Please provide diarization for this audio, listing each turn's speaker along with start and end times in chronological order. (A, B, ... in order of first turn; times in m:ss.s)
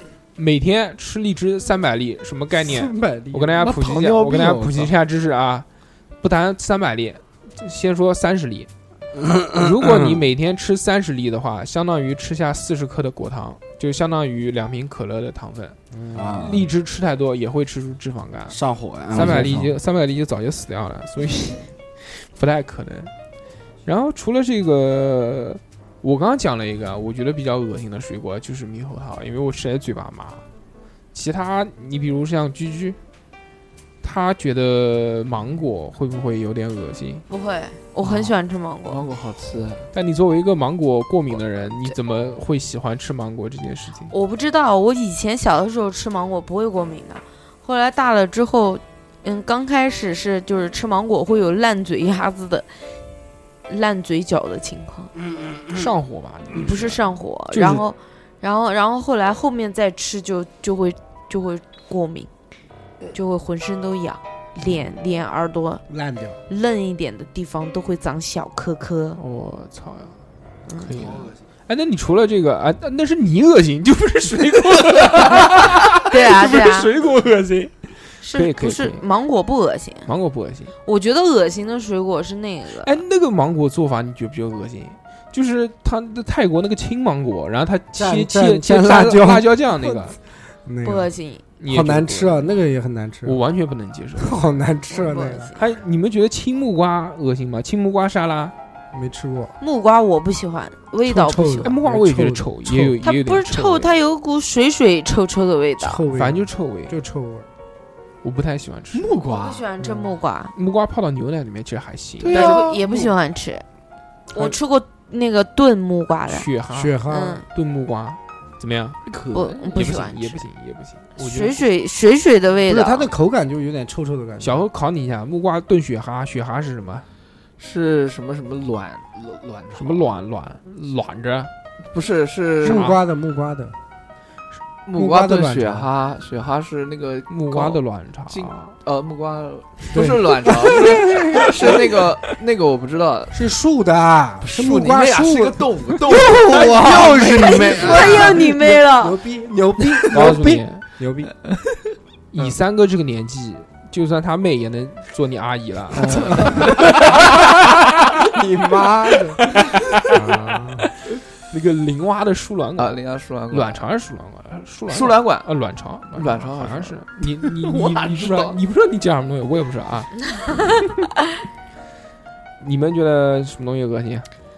0:00.4-0:05.7 A
0:02.6-0:03.7 B
0:03.6-0:04.9 C
0:06.2-0:08.7 A
0:09.2-0:10.2 D
0:09.5-0:15.8 A
0:15.9-0:16.6 B
0:16.1-0:16.7 D
0:16.3-0:18.6 A
0:18.5-0:19.7 D
0:19.1-0:23.1 A
0:23.8-0:30.4 A
0:31.1-0:33.0 A
0:34.0-0:37.2 A
0:37.3-0:39.0 E
0:38.0-0:38.3 C
0:38.9-0:39.9 C
0:39.9-0:44.1 A
0:44.1-0:52.7 E
0:53.7-0:55.1 E
0:55.7-0:57.8 A
0:56.5-1:02.3 E
1:03.1-1:05.8 E
1:05.9-1:06.4 B
1:06.5-1:09.2 E
1:09.2-1:10.2 A
1:10.7-1:11.0 E
1:10.8-1:19.0 A
1:16.0-1:16.9 E
1:18.2-1:20.1 E
1:20.0-1:20.7 A
1:20.8-1:23.0 E
1:22.8-1:30.2 A
1:28.0-1:31.1 B
1:30.8-1:31.4 E
1:31.6-1:32.5 A
1:31.6-1:33.4 B
1:33.2-1:34.5 A
1:34.2-1:35.5 B
1:34.9-1:35.6 E
1:35.6-1:38.5 A
1:38.9-1:39.5 B
1:39.6-1:41.7 E
1:41.0-1:43.0 B
1:41.6-1:43.9 A
1:43.0-1:46.0 E
1:45.8-1:47.4 B
1:46.1-1:46.9 A
1:48.2-1:49.1 A
1:48.9-1:49.6 C
1:49.2-1:50.5 E
1:49.8-1:50.1 B
1:50.5-1:52.6 A
1:52.2-1:53.1 C
1:52.3-1:53.6 E
1:54.3-1:56.5 E
1:56.3-1:57.0 A
1:56.7-1:57.4 B
1:57.1-1:57.4 E
1:57.5-1:59.0 A
1:59.0-1:59.8 C
1:59.3-2:00.4 E
1:59.7-2:01.6 A
2:01.2-2:03.1 E
2:02.7-2:04.6 B
2:04.4-2:07.0 A
2:07.6-2:10.1 C
2:09.8-2:11.5 A
2:11.9-2:12.9 C
2:12.6-2:13.7 B
2:12.6-2:13.0 A
2:14.8-2:23.4 C
2:14.9-2:15.9 B
2:17.3-2:18.7 A
2:19.9-2:21.9 B
2:23.3-2:31.3 B
2:24.4-2:28.4 C
2:27.2-2:29.2 E
2:30.1-2:30.8 A
2:32.3-2:37.9 A
2:36.0-2:36.7 B
2:36.4-2:36.7 C
2:38.3-2:39.5 B
2:39.4-2:40.2 A
2:40.0-2:40.9 B
2:41.5-2:50.8 A
2:42.8-2:43.9 C
2:44.9-2:45.5 C
2:46.1-2:48.6 C
2:52.6-2:54.3 A